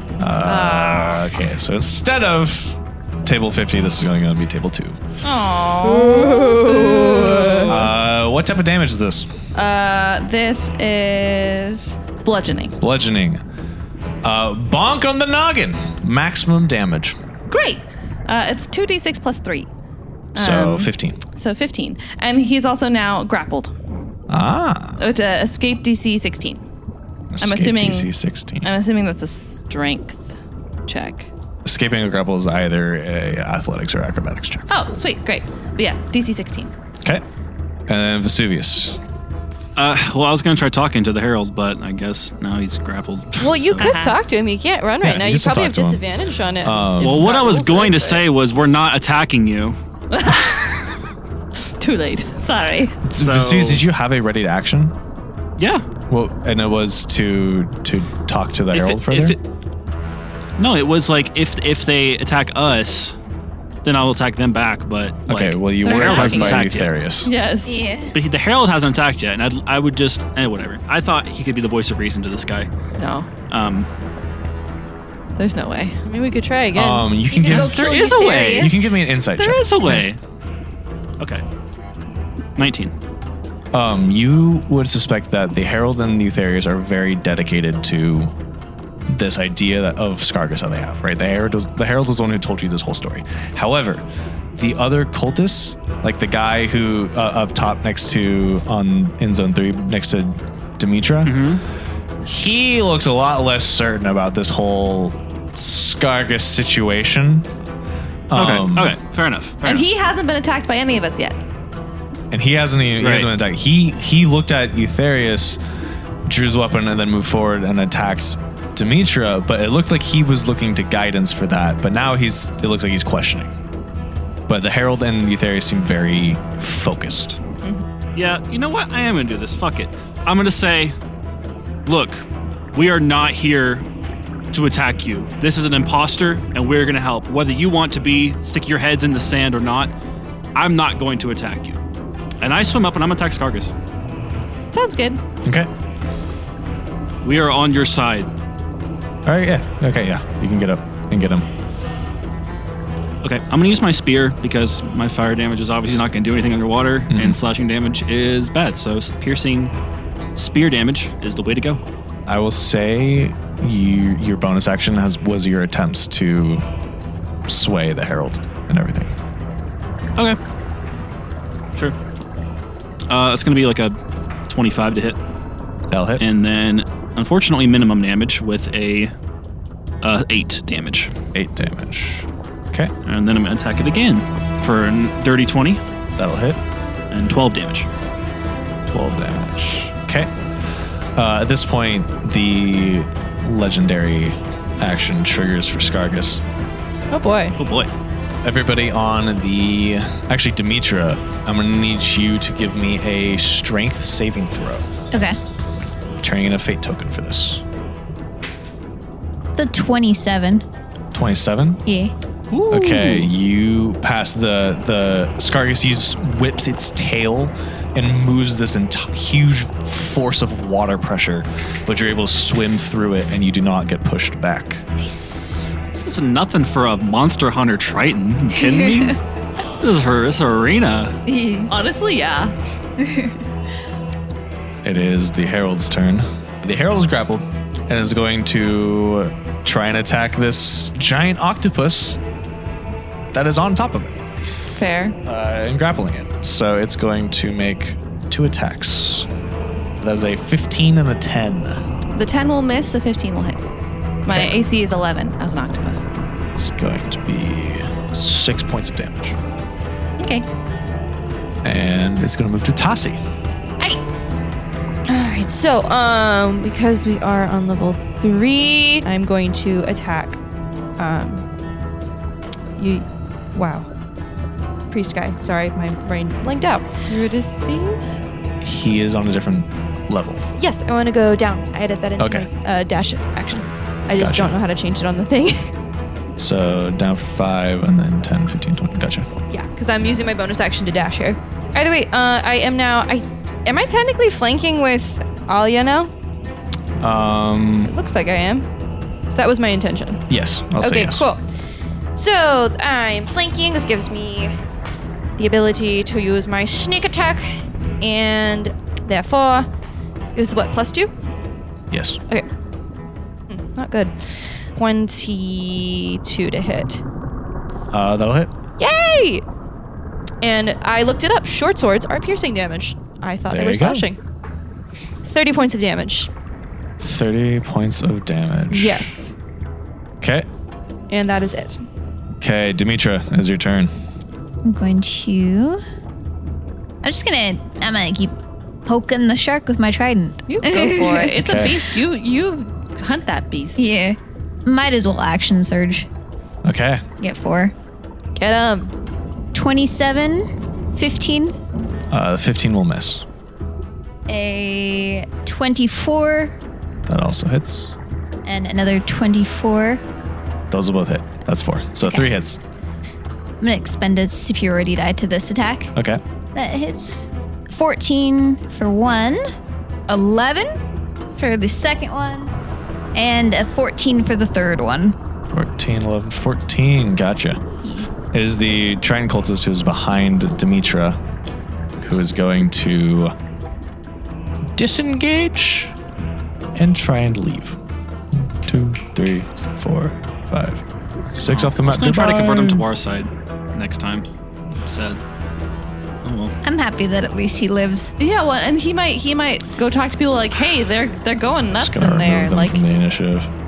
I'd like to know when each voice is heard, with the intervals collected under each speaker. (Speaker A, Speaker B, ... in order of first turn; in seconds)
Speaker A: 0.2-5.0, 7.7-9.3, 12.8-13.4, 14.2-17.1, 20.4-21.2, 24.3-25.0, 27.3-28.7, 31.6-34.6, 37.9-39.0, 45.0-46.0, 46.6-47.4, 53.0-54.9, 56.1-59.4, 65.3-67.3, 76.7-80.1, 83.7-88.3, 89.1-94.0, 94.6-101.5, 102.2-107.5, 108.3-109.0, 112.3-115.6, 116.3-123.5, 124.5-127.4, 145.4-145.7, 149.3-151.5, 157.1-157.4, 162.3-166.6, 167.5-169.1, 175.9-176.2, 181.3-182.9, 186.2-186.6, 188.9-190.3, 191.2-196.4, 198.4-204.9, 206.2-207.6, 211.1-211.8, 212.7-224.8, 234.8-242.2, 243.3-244.2, 245.2-249.3, 250.0-251.8, 254.3-254.6, 256.6-259.4, 261.6-263.2, 278.6-280.4, 282.2-282.5, 284.1-284.6, 286.4-289.3, 297.0-297.9, 300.3-301.3, 311.9-312.2, 317.9-318.5, 323.5-324.1, 327.0-329.1, 330.2-330.5, 332.4-333.9, 341.4-341.8, 346.6-347.1, 352.1-353.2, 357.1-357.9, 360.7-362.6, 365.9-366.2, 375.5-377.6, 378.3-381.2, 382.0-383.3, 384.8-385.9, 386.8-387.8, 388.6-390.8, 391.4-392.9, 401.8-403.5
Speaker B: 0.4-1.4, 5.2-7.9, 9.6-12.8, 17.5-19.7, 20.4-23.7, 25.0-26.6, 27.4-28.1, 28.6-30.4, 30.9-31.3, 34.7-36.7, 43.8-44.2, 50.1-50.9, 51.7-53.0, 65.8-67.8, 73.0-73.3, 75.4-76.0, 109.6-111.4, 144.7-145.2, 231.7-232.6, 244.8-245.2, 252.1-253.6, 254.2-256.1, 260.2-260.5, 277.1-277.4, 340.5-343.9, 398.2-402.8
Speaker C: 5.8-7.9, 43.4-48.2, 76.0-77.1, 197.1-197.6, 265.1-270.4, 271.0-271.4, 272.8-273.9, 274.9-278.2, 280.6-285.7, 289.5-296.1, 297.9-298.7, 299.3-300.2, 300.8-301.4, 302.1-304.5, 305.4-309.7, 310.4-311.1, 313.5-317.0, 318.8-319.4, 320.4-324.2, 325.2-326.3, 328.7-329.4, 331.1-331.8, 348.4-348.9
Speaker D: 39.8-43.9, 47.0-49.8, 53.2-53.9, 55.6-55.9, 58.7-59.4, 60.6-63.1, 63.8-66.9, 68.1-72.7, 73.5-73.9, 77.5-80.2, 82.6-82.9, 101.2-101.6, 108.3-109.9, 113.0-113.3, 128.2-130.9, 131.9-133.9, 134.5-139.9, 140.6-141.8, 142.4-143.7, 147.2-148.3, 153.2-159.7, 160.4-161.8, 173.1-173.9, 174.5-175.2, 176.2-179.1, 180.0-181.1, 183.1-185.8, 187.1-187.9, 197.6-197.9, 212.5-213.3, 225.9-229.2, 229.8-231.2, 391.5-394.2, 394.8-395.2, 396.2-396.5
Speaker E: 67.6-68.2, 77.3-79.0, 205.1-205.4, 209.6-210.6, 211.9-212.1, 225.0-225.8, 228.6-229.2, 231.3-231.7, 233.0-233.4, 334.6-335.8, 337.0-341.4, 343.8-346.1, 347.2-347.7, 349.5-351.6, 354.3-356.6, 358.4-360.0, 362.0-362.3, 363.6-365.9, 366.5-369.4, 370.1-370.8, 371.4-372.6, 373.1-375.1, 377.8-378.1, 396.6-398.1